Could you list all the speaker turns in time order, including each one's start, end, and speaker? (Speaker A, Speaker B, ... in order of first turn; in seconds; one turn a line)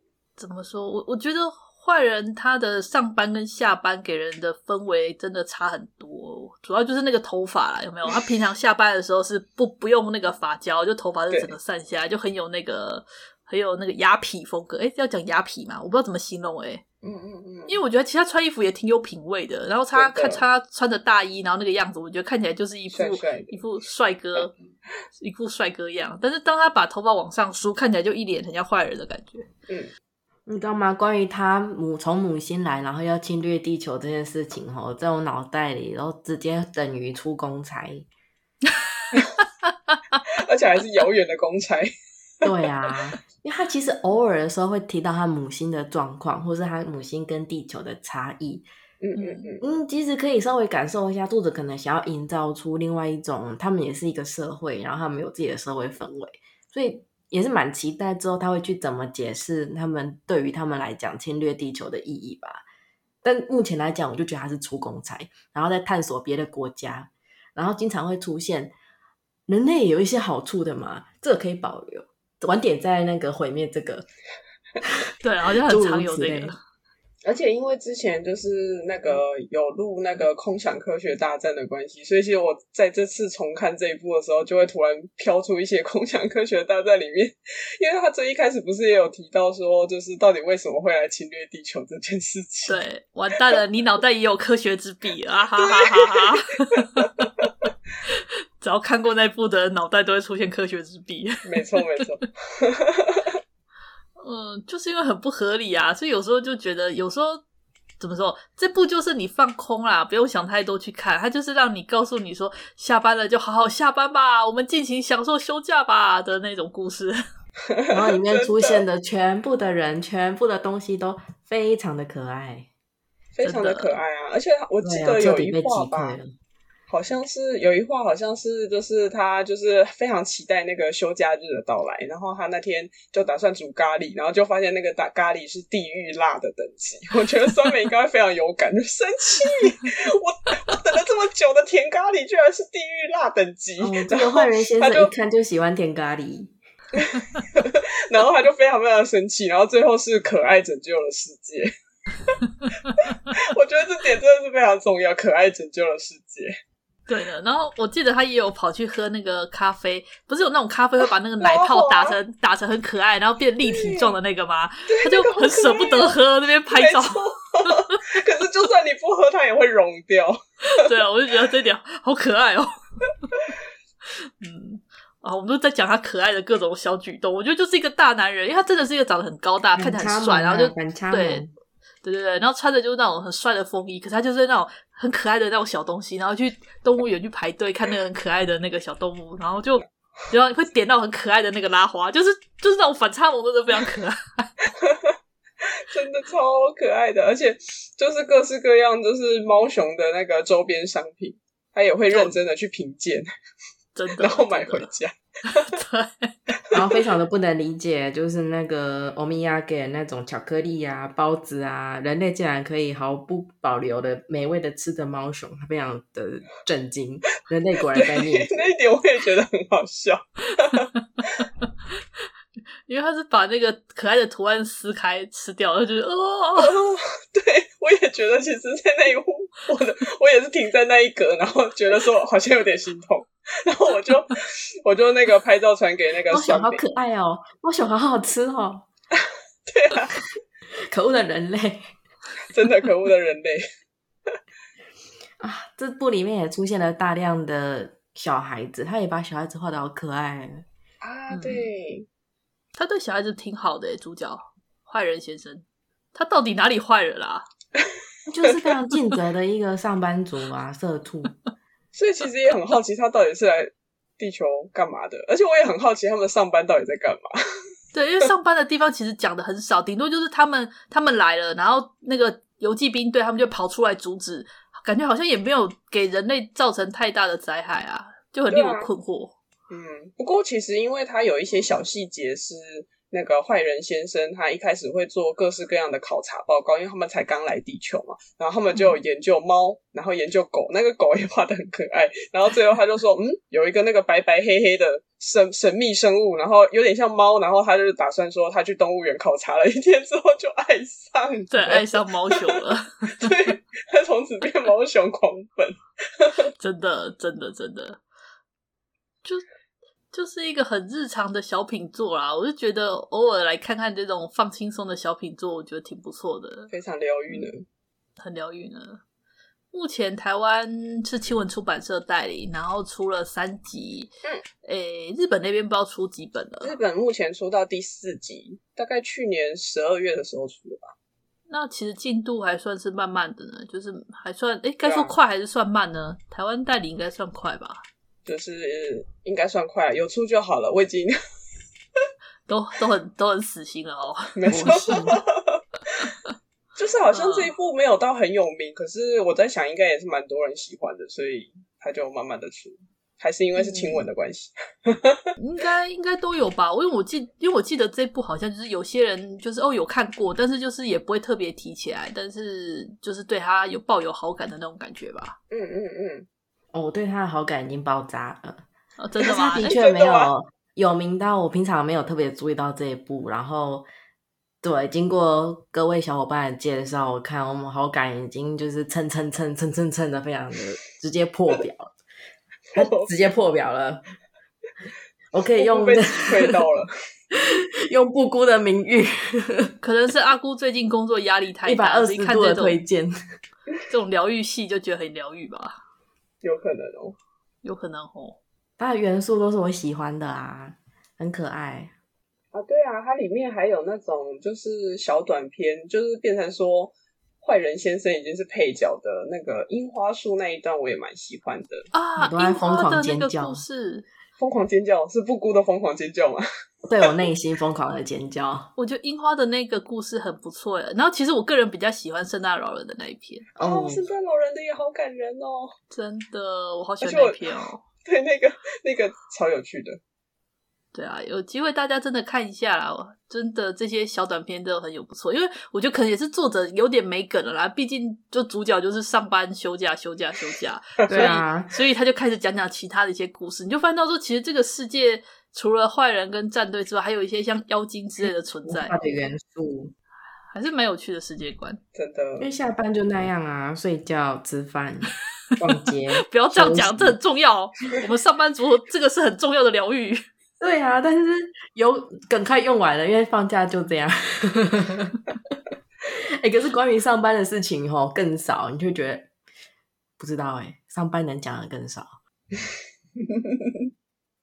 Speaker A: 0.4-16.8
Speaker B: 17.0-17.8
Speaker A: 17.7-24.5
Speaker B: 19.9-20.5
Speaker B: 22.9-23.6
Speaker A: 25.2-29.5
Speaker C: 30.5-38.1
Speaker A: 39.0-40.2
Speaker B: 40.4-41.9
Speaker C: 42.4-48.7
Speaker B: 49.0-49.6
Speaker A: 49.2-49.5
Speaker C: 49.6-62.6
Speaker C: 63.2-68.7
Speaker C: 69.5-74.1
Speaker A: 75.2-76.6
Speaker C: 75.7-76.5
Speaker B: 77.2-92.8
Speaker A: 92.7-97.3
Speaker B: 95.7-96.3
Speaker A: 98.1-101.8
Speaker B: 101.4-103.3
Speaker A: 104.2-107.4
Speaker A: 108.0-117.2
Speaker B: 117.9-118.8
Speaker C: 117.9-122.7
Speaker B: 123.3-126.2
Speaker A: 123.4-124.0
Speaker C: 124.8-126.3
Speaker B: 126.9-145.1
Speaker C: 143.8-146.5
Speaker B: 147.0-151.7
Speaker B: 153.1-156.5
Speaker A: 157.1-167.2
Speaker B: 161.4-162.2
Speaker B: 163.7-164.2
Speaker B: 164.9-170.4
Speaker A: 170.7-172.7
Speaker A: 174.4-181.4
Speaker C: 179.8-181.5
Speaker A: 182.0-194.5
Speaker B: 194.8-195.1
Speaker B: 195.9-203.3
Speaker A: 202.1-202.4
Speaker A: 203.9-204.9
Speaker B: 204.2-205.8
Speaker A: 205.6-206.3
Speaker C: 206.7-218.5
Speaker B: 217.9-221.4
Speaker A: 222.9-226.7
Speaker B: 226.6-236.8
Speaker C: 236.3-238.9
Speaker B: 239.7-240.1
Speaker C: 240.9-241.9
Speaker B: 242.5-243.6
Speaker C: 245.4-250.7
Speaker B: 251.0-252.1
Speaker A: 251.3-251.7
Speaker A: 252.8-257.5
Speaker C: 258.3-261.4
Speaker B: 261.9-267.3
Speaker A: 267.9-279.4
Speaker B: 278.5-278.9
Speaker B: 279.7-302.6
Speaker A: 301.5-303.3
Speaker B: 303.1-306.4
Speaker A: 306.6-308.0
Speaker A: 310.1-316.7
Speaker B: 316.7-317.6
Speaker A: 318.2-319.0
Speaker A: 319.7-324.1
Speaker A: 324.6-326.8
Speaker B: 326.6-330.9
Speaker A: 331.5-337.8
Speaker B: 334.8-335.2
Speaker B: 338.3-341.1
Speaker A: 342.5-344.8
Speaker B: 344.4-345.6
Speaker C: 344.5-345.2
Speaker B: 346.8-355.2
Speaker A: 347.1-347.5
Speaker A: 353.6-354.1
Speaker A: 355.4-365.4
Speaker B: 365.5-366.3
Speaker C: 366.7-368.6
Speaker A: 369.0-369.8
Speaker C: 369.2-373.9
Speaker B: 369.3-370.3
Speaker C: 374.6-382.0
Speaker B: 382.7-383.1
Speaker C: 382.7-384.0
Speaker C: 385.3-386.5
Speaker B: 385.6-386.9
Speaker C: 387.3-389.7
Speaker A: 389.8-392.8
Speaker C: 391.6-393.1
Speaker A: 393.9-395.8
Speaker B: 396.4-397.2
Speaker A: 397.6-398.4
Speaker C: 398.8-401.9
Speaker B: 402.5-411.9
Speaker A: 411.9-414.1
Speaker C: 412.2-413.6
Speaker B: 414.4-416.4
Speaker C: 416.9-418.7
Speaker A: 418.8-423.4
Speaker C: 423.6-424.1
Speaker B: 423.6-425.8
Speaker A: 425.9-427.8
Speaker B: 427.0-427.5
Speaker B: 428.0-430.0
Speaker A: 430.9-449.0
Speaker B: 441.1-441.4
Speaker C: 441.1-441.7
Speaker C: 448.7-449.9
Speaker A: 450.5-451.8
Speaker B: 452.0-452.5
Speaker C: 452.4-457.2
Speaker A: 456.3-460.2
Speaker C: 460.6-465.3
Speaker C: 466.4-469.3
Speaker C: 470.2-472.1
Speaker B: 473.2-473.8